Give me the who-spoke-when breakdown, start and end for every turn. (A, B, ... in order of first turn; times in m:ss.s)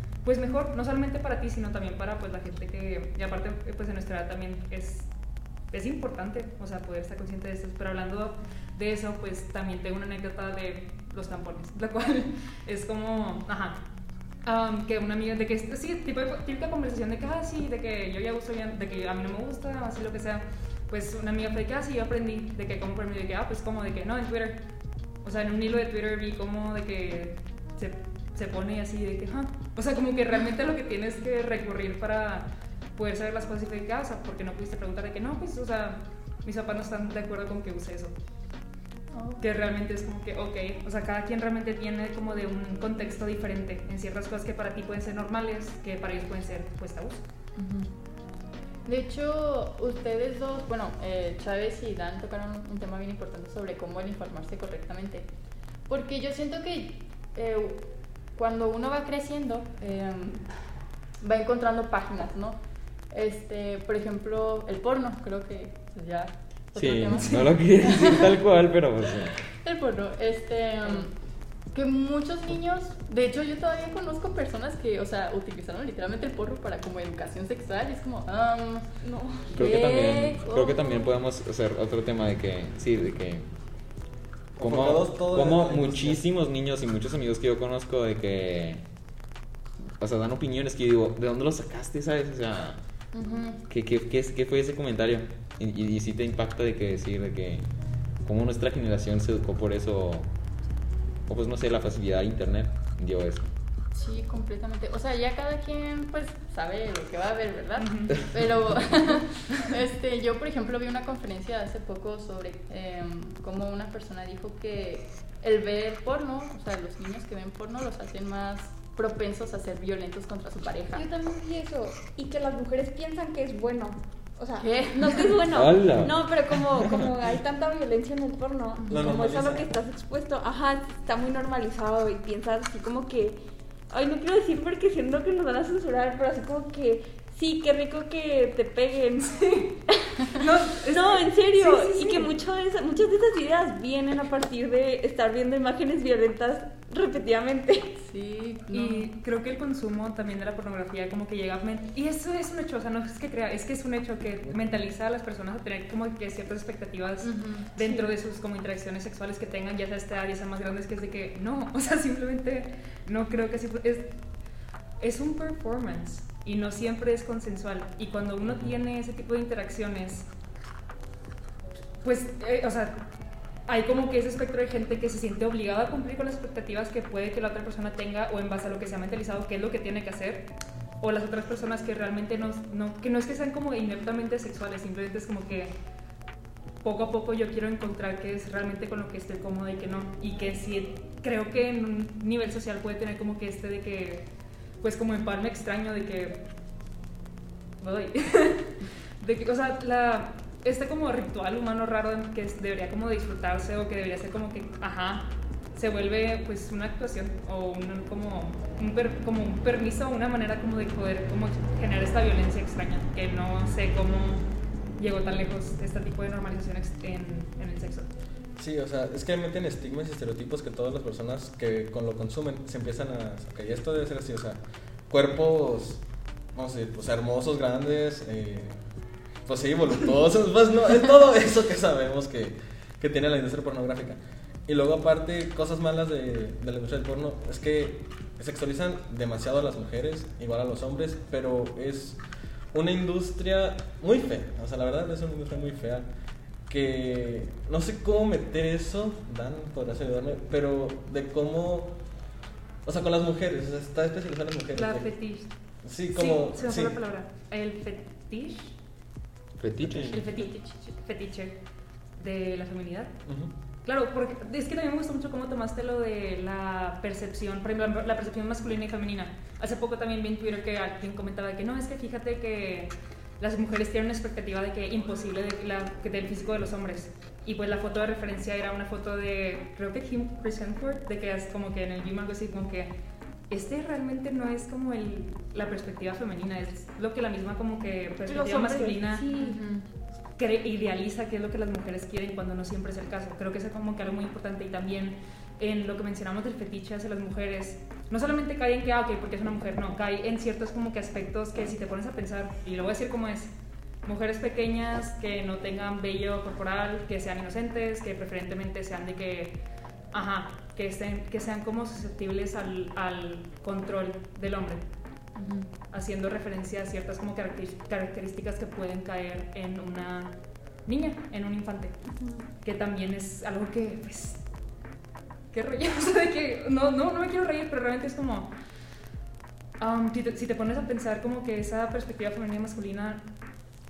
0:00.2-0:05.1 A
0:05.7-0:13.8 A
0:14.4-0:24.6 A
0:25.2-0:38.1 A
0:39.1-0:39.4 B
0:39.4-0:47.2 A
0:47.6-0:47.9 B
0:48.8-0:55.3 B
0:55.9-0:57.8 B
0:58.3-1:00.5 B
1:01.2-1:02.6 B
1:03.1-1:08.4 B
1:06.7-1:09.4 C
1:07.2-1:07.5 A
1:09.5-1:11.1 B
1:11.7-1:18.9 B
1:19.0-1:19.5 D
1:19.5-1:21.1 B
1:19.5-1:23.5 C
1:24.6-1:26.2 E
1:24.6-1:28.8 C
1:30.0-1:32.8 C
1:33.1-1:33.6 B
1:33.7-1:37.7 C
1:38.2-1:40.3 C
1:41.3-1:43.5 C
1:43.9-2:01.0 B
1:47.8-1:48.2 A
1:48.1-1:48.8 C
2:00.9-2:13.4 D
2:04.6-2:05.4 B
2:05.5-2:07.3 C
2:08.9-2:09.7 E
2:13.9-2:28.0 D
2:20.4-2:22.3 A
2:28.0-2:29.1 B
2:28.7-2:44.1 A
2:37.2-2:38.1 B
2:45.0-2:50.3 A
2:52.0-2:53.0 A
2:53.7-3:05.7 A
3:06.8-3:14.3 A
3:14.8-3:16.4 A
3:17.8-3:34.4 A
3:35.0-3:38.1 A
3:38.6-3:46.0 E
3:46.5-3:48.8 E
3:49.4-4:02.2 E
4:02.7-4:06.1 E
4:06.7-4:12.0 E
4:12.8-4:15.1 E
4:14.7-4:15.5 A
4:15.8-4:17.0 E
4:16.1-4:18.8 A
4:19.6-4:20.2 C
4:19.8-4:20.2 E
4:20.0-4:21.6 A
4:20.3-4:20.8 B
4:22.2-4:23.1 A
4:23.2-4:23.5 E
4:23.8-4:42.9 A
4:43.5-4:49.3 A
4:48.3-4:49.6 D
4:49.3-4:49.8 B
4:50.4-5:03.5 A
5:04.0-5:09.6 A
5:10.1-5:14.8 A
5:15.4-5:15.7 B
5:15.9-5:22.0 A
5:22.6-5:24.4 A
5:25.5-5:28.5 A
5:29.8-5:33.2 A